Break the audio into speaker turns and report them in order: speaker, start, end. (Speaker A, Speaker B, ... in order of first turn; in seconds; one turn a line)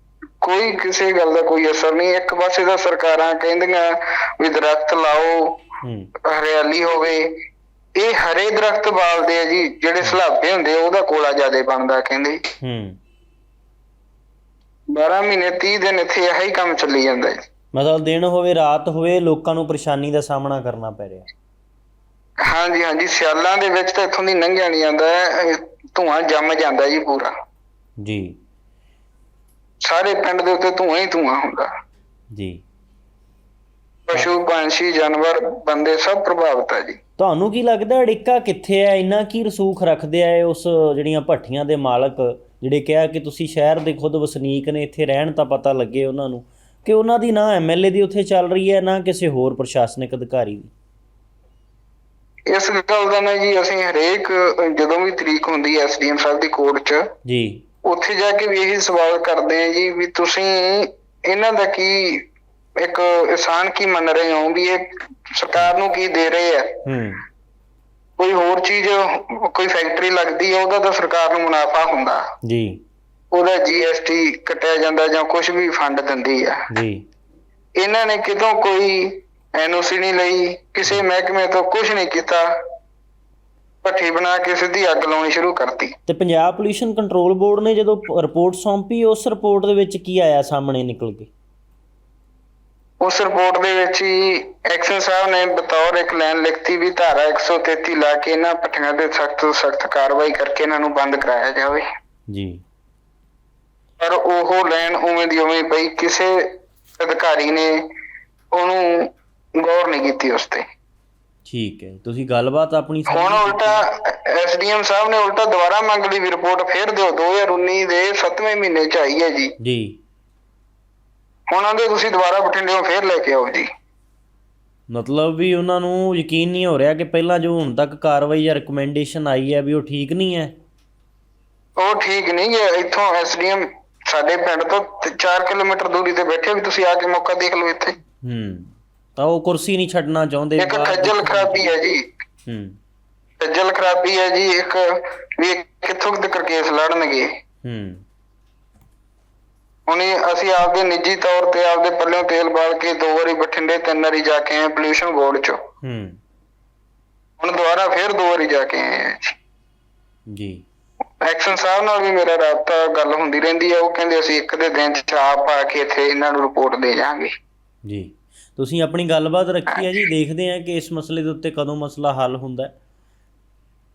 Speaker A: 0.4-5.6
Speaker B: 5.8-6.1
Speaker A: 6.2-7.2
Speaker A: 8.0-12.4
Speaker B: 12.6-13.0
Speaker A: 14.9-17.4
Speaker B: 17.7-21.3
Speaker A: 22.4-27.3
Speaker B: 28.0-28.3
Speaker A: 29.8-31.7
Speaker B: 32.3-32.6
Speaker A: 34.1-37.0
Speaker B: 37.2-50.7
Speaker A: 52.5-57.0
Speaker B: 57.2-57.6
Speaker A: 57.8-62.2
Speaker A: 62.8-66.8
Speaker B: 66.8-67.2
Speaker A: 68.2-72.2
Speaker B: 72.4-72.8
Speaker A: 73.3-76.6
Speaker B: 76.7-77.0
Speaker A: 77.8-82.5
Speaker A: 83.8-85.9
Speaker B: 86.1-91.3
Speaker A: 93.0-101.8
Speaker B: 102.3-102.6
Speaker A: 104.0-107.8
Speaker A: 108.5-110.6
Speaker B: 111.5-113.8
Speaker A: 113.1-119.5
Speaker B: 119.6-120.0
Speaker A: 121.5-123.7
Speaker B: 124.9-130.5
Speaker A: 131.8-138.0
Speaker B: 138.2-141.8
Speaker A: 140.6-142.0
Speaker B: 142.5-142.8
Speaker A: 143.4-147.3
Speaker B: 147.6-148.0
Speaker A: 149.9-155.6
Speaker B: 155.8-156.2
Speaker A: 157.4-159.3
Speaker B: 160.3-160.6
Speaker A: 161.2-167.3
Speaker B: 167.8-172.7